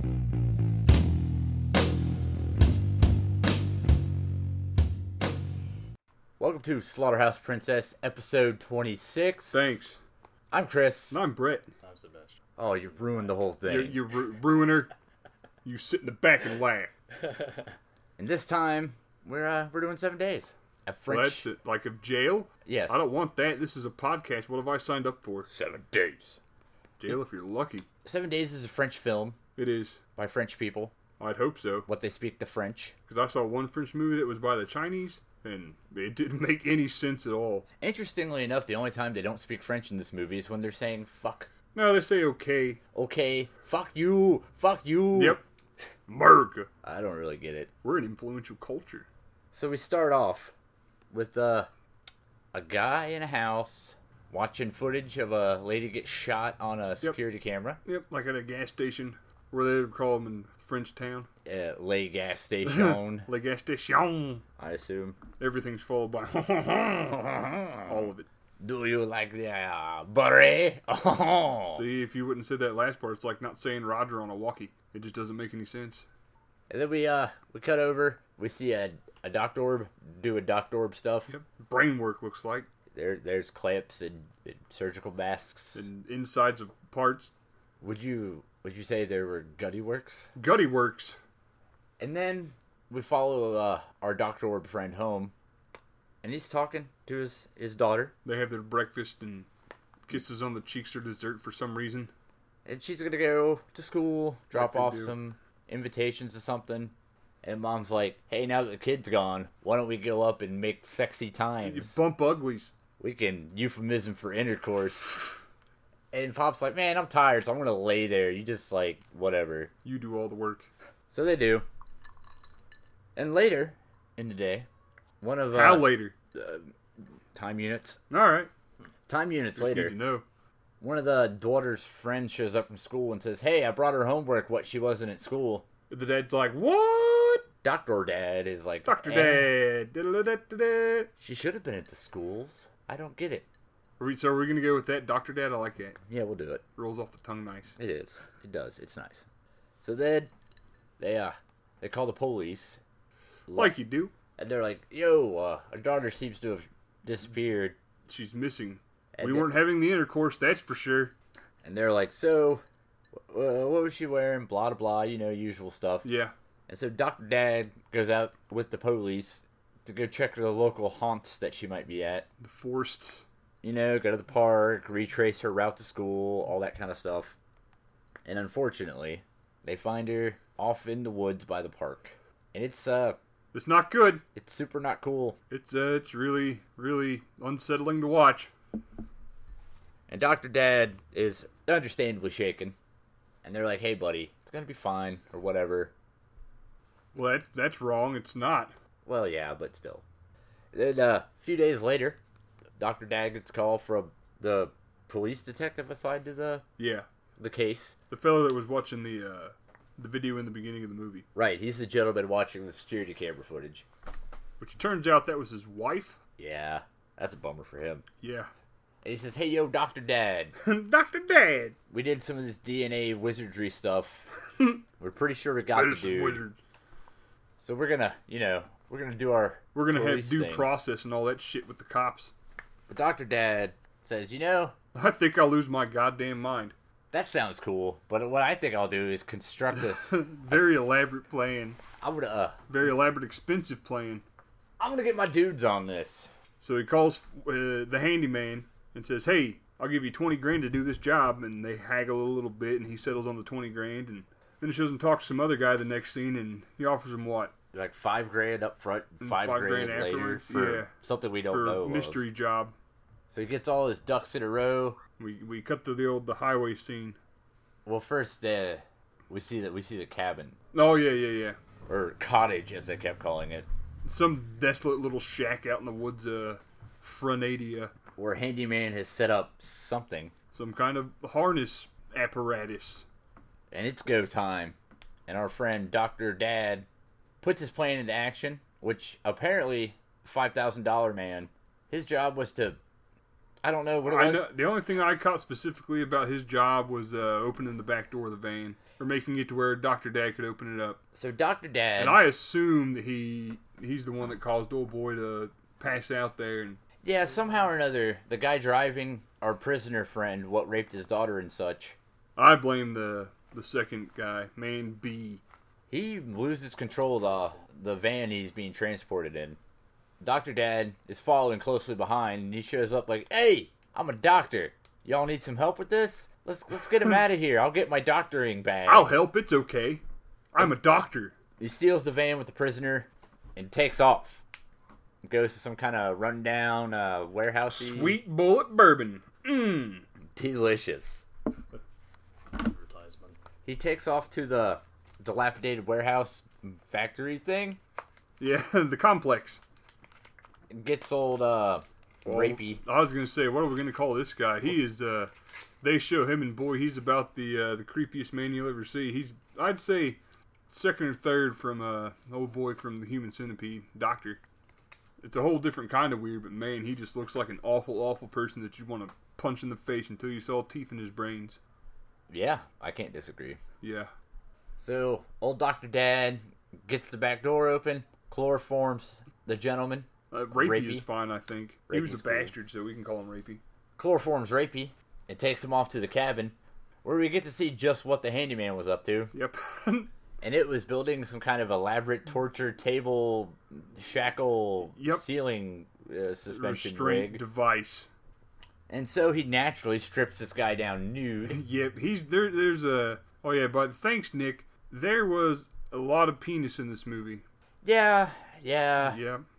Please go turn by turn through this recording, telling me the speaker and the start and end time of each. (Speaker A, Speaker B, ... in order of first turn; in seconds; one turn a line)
Speaker A: 6.4-9.8
Speaker B: 9.5-10.0
Speaker A: 10.5-11.2
Speaker B: 11.1-11.7
Speaker C: 11.8-13.2
Speaker A: 12.6-14.0
Speaker B: 13.6-14.9
Speaker B: 15.6-16.9
Speaker C: 17.1-17.7
Speaker A: 18.2-21.5
Speaker B: 21.1-25.5
Speaker A: 22.6-23.1
Speaker A: 25.5-26.4
Speaker B: 27.0-27.9
Speaker A: 28.0-29.4
Speaker B: 29.6-30.0
Speaker A: 30.1-30.9
Speaker B: 31.2-31.9
Speaker A: 31.9-32.9
Speaker B: 33.1-37.6
Speaker A: 37.8-41.5
Speaker B: 41.7-42.8
Speaker A: 42.9-45.4
Speaker B: 45.1-45.4
Speaker B: 46.1-46.7
Speaker A: 46.8-47.7
Speaker B: 47.8-49.1
Speaker A: 49.5-50.5
Speaker A: 51.1-51.7
Speaker A: 52.5-57.8
Speaker B: 57.8-61.3
Speaker A: 61.4-63.3
Speaker B: 62.6-64.4
Speaker A: 64.6-65.2
Speaker B: 65.4-67.2
Speaker A: 67.1-68.1
Speaker B: 67.8-68.3
Speaker A: 68.6-71.8
Speaker B: 71.7-76.0
Speaker A: 76.7-81.3
Speaker B: 81.3-82.7
Speaker A: 82.9-85.9
Speaker B: 85.7-87.3
Speaker A: 87.8-90.3
Speaker B: 90.3-91.2
Speaker A: 92.0-95.3
Speaker A: 96.2-98.1
Speaker B: 98.2-99.5
Speaker B: 100.1-102.1
Speaker A: 102.7-112.0
Speaker B: 104.5-105.2
Speaker B: 111.6-112.7
Speaker A: 113.0-115.2
Speaker A: 116.1-119.7
Speaker B: 119.8-120.7
Speaker A: 121.1-121.6
Speaker A: 123.2-124.7
Speaker A: 125.2-126.7
Speaker B: 125.5-126.1
Speaker A: 127.3-128.0
Speaker B: 128.1-128.5
Speaker A: 129.1-130.0
Speaker B: 129.6-130.2
Speaker A: 130.8-135.6
Speaker B: 135.9-137.4
Speaker A: 137.6-139.5
Speaker B: 138.8-141.1
Speaker A: 141.2-143.4
Speaker B: 144.0-146.0
Speaker A: 146.1-146.6
Speaker B: 146.8-147.7
Speaker A: 147.8-149.3
Speaker A: 149.8-150.3
Speaker A: 151.0-152.8
Speaker A: 153.5-153.7
Speaker B: 153.6-154.1
Speaker A: 154.4-157.8
Speaker B: 158.1-161.1
Speaker A: 159.1-159.5
Speaker A: 161.6-162.6
Speaker A: 163.1-166.1
Speaker B: 166.0-166.3
Speaker A: 166.7-172.3
Speaker B: 172.4-173.2
Speaker A: 173.6-177.3
Speaker A: 178.2-183.2
Speaker B: 183.5-184.2
Speaker A: 184.3-185.4
Speaker B: 185.5-188.5
Speaker A: 190.1-192.7
Speaker A: 193.4-195.9
Speaker B: 197.1-198.7
Speaker A: 199.0-200.0
Speaker A: 200.7-202.2
Speaker A: 202.8-206.6
Speaker B: 206.8-207.1
Speaker A: 207.4-208.0
Speaker B: 208.1-211.2
Speaker A: 211.3-213.8
Speaker B: 214.6-216.2
Speaker A: 216.4-218.0
Speaker B: 218.2-218.5
Speaker A: 219.0-220.5
Speaker B: 220.6-221.8
Speaker A: 221.9-224.3
Speaker A: 225.0-226.4
Speaker B: 225.7-226.6
Speaker A: 227.6-230.7
Speaker B: 229.7-232.3
Speaker A: 232.9-234.7
Speaker B: 234.9-236.7
Speaker A: 237.1-240.2
Speaker B: 239.8-241.8
Speaker A: 242.0-242.6
Speaker B: 242.7-244.2
Speaker A: 244.8-246.3
Speaker B: 246.6-257.5
Speaker A: 257.7-262.2
Speaker B: 259.2-260.9
Speaker B: 261.5-262.7
Speaker A: 263.3-265.0
Speaker B: 265.2-267.2
Speaker A: 267.9-270.6
Speaker B: 270.7-271.6
Speaker A: 271.9-273.7
Speaker B: 274.0-277.9
Speaker A: 278.1-280.3
Speaker B: 280.5-283.1
Speaker A: 283.7-284.8
Speaker A: 285.3-286.9
Speaker A: 287.4-292.8
Speaker A: 293.6-294.5
Speaker B: 294.0-301.0
Speaker A: 301.1-302.2
Speaker B: 302.0-306.8
Speaker A: 307.0-312.0
Speaker B: 312.4-315.4
Speaker A: 315.9-319.6
Speaker C: 317.1-317.6
Speaker A: 320.2-329.1
Speaker B: 328.9-330.0
Speaker B: 330.5-331.3
Speaker A: 331.6-334.4
Speaker A: 335.2-338.2
Speaker B: 337.7-340.0
Speaker A: 340.4-341.3
Speaker C: 342.5-343.4
Speaker A: 343.6-347.8
Speaker B: 348.4-349.6
Speaker A: 350.7-352.8
Speaker B: 352.2-364.4
Speaker B: 365.2-371.6
Speaker A: 372.3-373.6
Speaker B: 373.8-374.1
Speaker A: 374.8-381.1
Speaker B: 380.3-383.6
Speaker A: 381.9-382.5
Speaker A: 384.0-389.3
Speaker B: 389.3-390.1
Speaker A: 390.4-397.4
Speaker B: 394.9-395.2
Speaker B: 396.5-398.1
Speaker A: 398.9-401.6
Speaker B: 401.5-407.4
Speaker A: 407.8-409.2
Speaker B: 409.0-409.4